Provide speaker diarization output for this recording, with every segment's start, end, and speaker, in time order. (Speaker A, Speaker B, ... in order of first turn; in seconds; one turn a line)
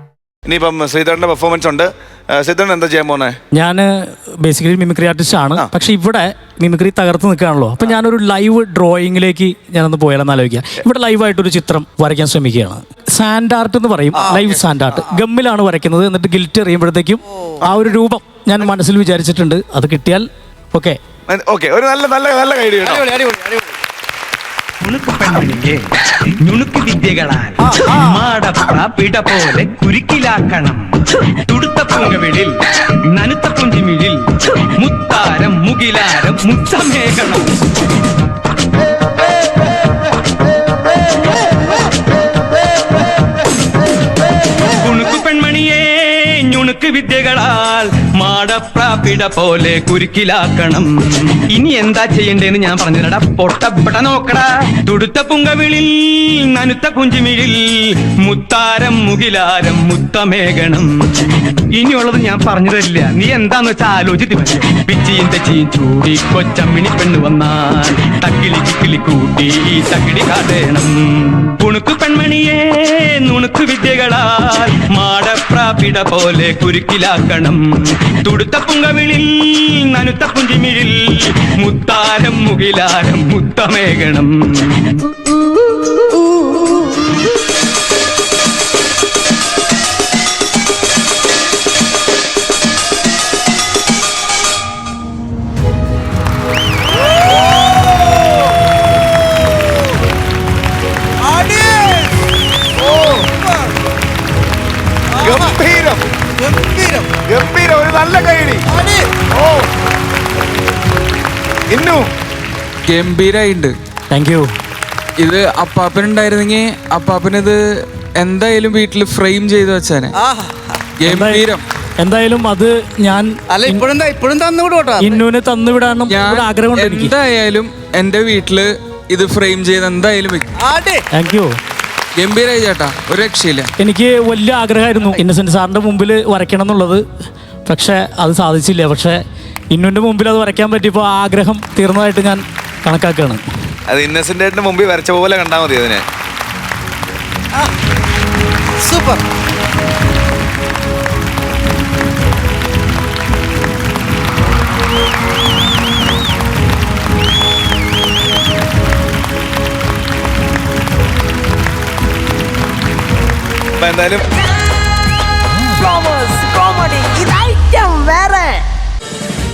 Speaker A: 0.5-3.4
Speaker B: 3.5-21.0
Speaker C: 14.2-15.0
Speaker A: 21.3-23.1
Speaker C: 22.9-23.6
Speaker D: 24.8-25.9
Speaker D: 26.4-30.9
Speaker C: 27.8-28.0
Speaker D: 31.5-32.5
Speaker D: 33.1-34.2
Speaker D: 34.8-37.5
Speaker D: 44.8-85.0
Speaker C: 101.2-102.1
Speaker A: 102.8-103.2
Speaker A: 105.2-106.0
Speaker C: 105.2-105.5
Speaker C: 106.4-107.1
Speaker A: 107.3-108.7
Speaker C: 108.7-109.1
Speaker A: 109.3-109.7
Speaker A: 111.7-112.1
Speaker E: 112.9-113.7
Speaker B: 114.1-114.5
Speaker E: 115.2-117.6
Speaker E: 118.2-120.2
Speaker C: 120.2-120.6
Speaker E: 121.0-121.6
Speaker B: 122.0-123.3
Speaker C: 123.5-125.2
Speaker B: 125.0-127.1
Speaker E: 126.1-130.5
Speaker C: 130.6-131.0
Speaker B: 131.2-131.5
Speaker E: 132.2-133.7
Speaker B: 133.8-137.1
Speaker B: 137.7-143.4
Speaker A: 143.9-146.0
Speaker C: 148.8-149.2
Speaker A: 163.8-164.3
Speaker F: 165.8-168.7